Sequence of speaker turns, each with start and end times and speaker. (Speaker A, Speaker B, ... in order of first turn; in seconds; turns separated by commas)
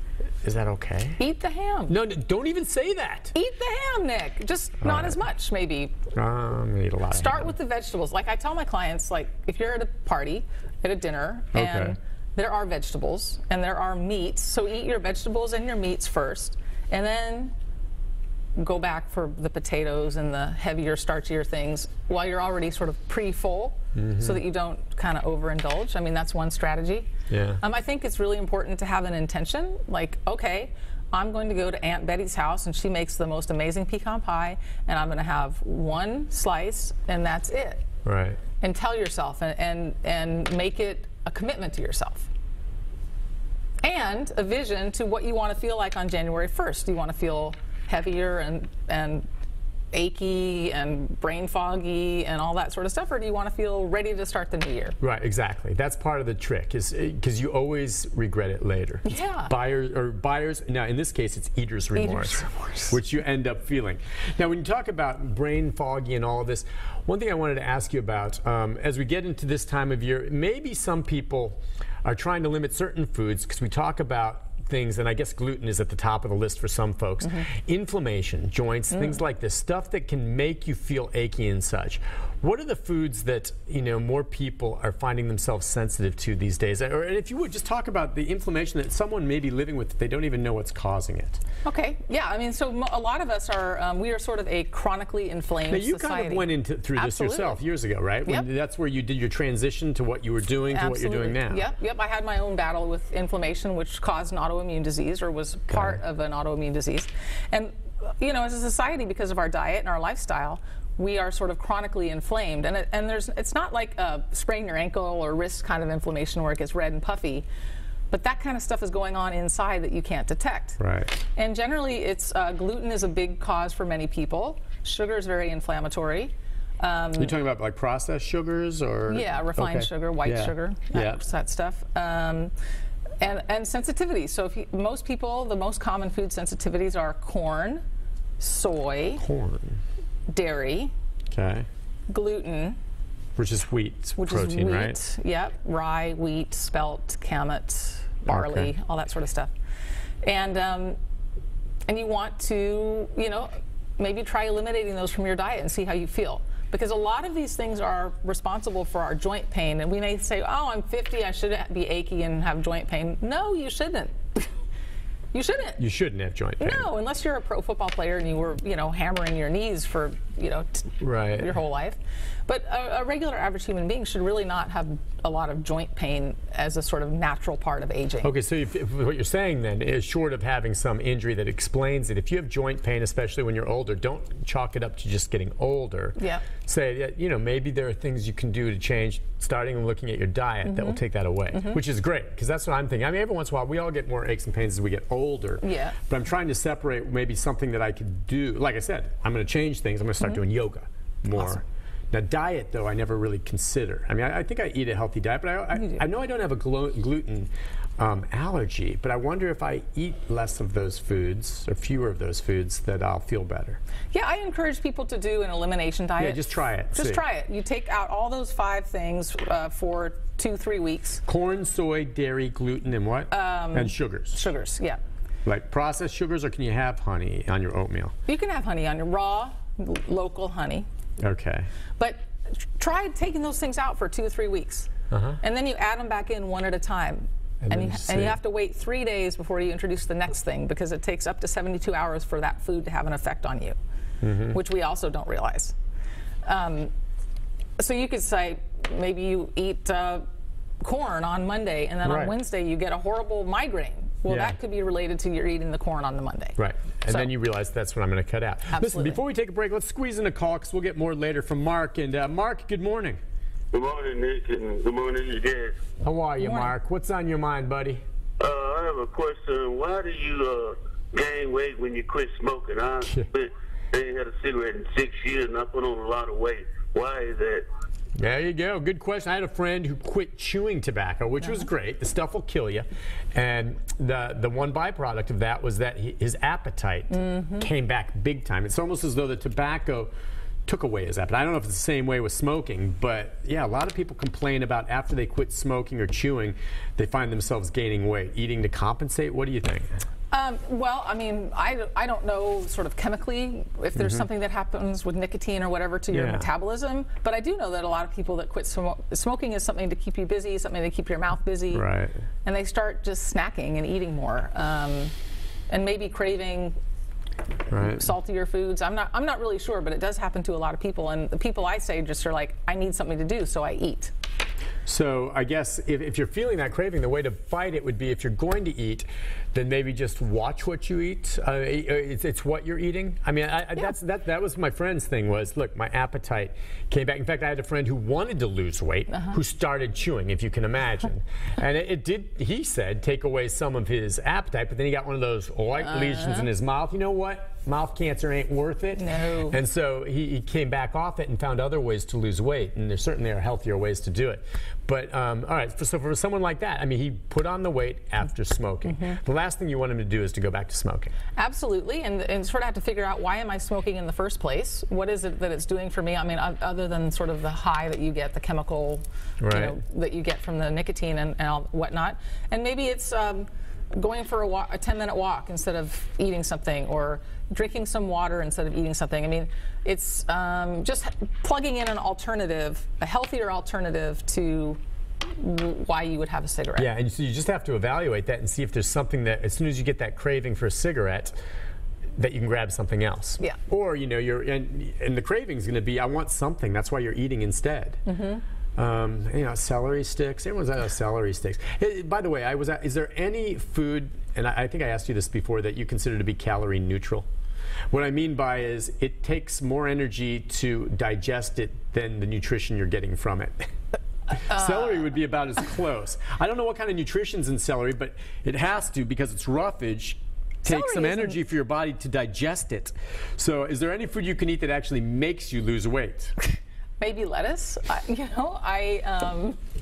Speaker A: 0.4-1.2, Speaker B: 1.2-2.0, Speaker A: 1.9-3.3, Speaker B: 3.3-6.0, Speaker A: 4.8-5.2, Speaker A: 6.2-7.5, Speaker B: 7.1-17.5, Speaker A: 11.5-12.0, Speaker B: 18.6-27.1, Speaker A: 23.9-24.4, Speaker A: 27.3-27.6, Speaker B: 27.6-37.9, Speaker A: 38.0-38.4, Speaker B: 38.6-42.3, Speaker B: 43.8-49.3, Speaker B: 49.9-55.0, Speaker A: 55.0-91.4, Speaker B: 59.1-59.5, Speaker B: 62.0-63.0, Speaker B: 77.2-77.5, Speaker B: 78.9-79.2, Speaker B: 91.7-97.6, Speaker A: 95.7-101.7, Speaker B: 100.7-117.5, Speaker A: 105.7-106.0, Speaker B: 118.1-120.8, Speaker A: 120.8-121.2, Speaker B: 121.3-127.3, Speaker A: 127.2-131.2, Speaker B: 129.1-132.5, Speaker B: 133.2-137.8, Speaker B: 138.4-139.2, Speaker A: 139.2-139.8, Speaker B: 140.3-140.9, Speaker A: 141.3-141.7, Speaker B: 142.1-142.8, Speaker A: 143.4-145.0, Speaker B: 144.2-149.5, Speaker A: 148.3-148.7, Speaker B: 150.2-151.0, Speaker B: 151.9-164.5, Speaker B: 165.3-165.8, Speaker A: 165.8-166.9, Speaker B: 166.6-178.3, Speaker A: 171.0-171.5, Speaker A: 178.2-213.8, Speaker B: 186.2-186.5, Speaker B: 190.7-191.0, Speaker B: 191.5-191.8, Speaker B: 195.6-196.0, Speaker B: 201.3-201.6, Speaker B: 205.8-206.0, Speaker B: 214.1-221.2, Speaker A: 216.2-217.2, Speaker A: 221.3-224.5, Speaker B: 223.3-225.0, Speaker A: 225.4-228.1, Speaker B: 228.3-230.9, Speaker A: 231.2-231.7, Speaker B: 232.0-234.9, Speaker A: 235.1-235.4, Speaker B: 235.4-243.8, Speaker A: 237.6-238.4, Speaker A: 244.2-244.6, Speaker B: 244.5-245.7, Speaker B: 246.4-246.9, Speaker B: 247.8-250.2, Speaker B: 250.8-257.3, Speaker A: 252.0-252.4, Speaker A: 254.3-254.6, Speaker A: 256.6-263.2, Speaker B: 258.7-259.2, Speaker C: 263.7-265.8, Speaker A: 266.0-268.0, Speaker B: 266.4-266.8, Speaker C: 268.4-277.7, Speaker A: 278.2-290.1, Speaker B: 287.1-287.7, Speaker A: 290.7-299.9, Speaker B: 300.3-311.9, Speaker A: 304.0-304.3, Speaker A: 306.1-306.5, Speaker A: 311.7-312.1, Speaker B: 312.4-315.1, Speaker B: 315.7-316.8, Speaker A: 317.7-318.1, Speaker B: 317.8-324.1, Speaker A: 324.9-361.1, Speaker B: 339.1-339.4, Speaker B: 345.8-346.5, Speaker B: 349.0-349.6, Speaker B: 358.9-359.2, Speaker B: 361.4-384.8, Speaker A: 369.4-369.8, Speaker B: 385.4-386.9, Speaker A: 386.8-391.4, Speaker A: 392.2-398.0, Speaker B: 398.1-398.4, Speaker A: 398.8-407.3, Speaker A: 407.9-413.7, Speaker A: 414.3-426.5, Speaker B: 414.5-415.1, Speaker B: 420.6-421.4, Speaker B: 427.0-429.6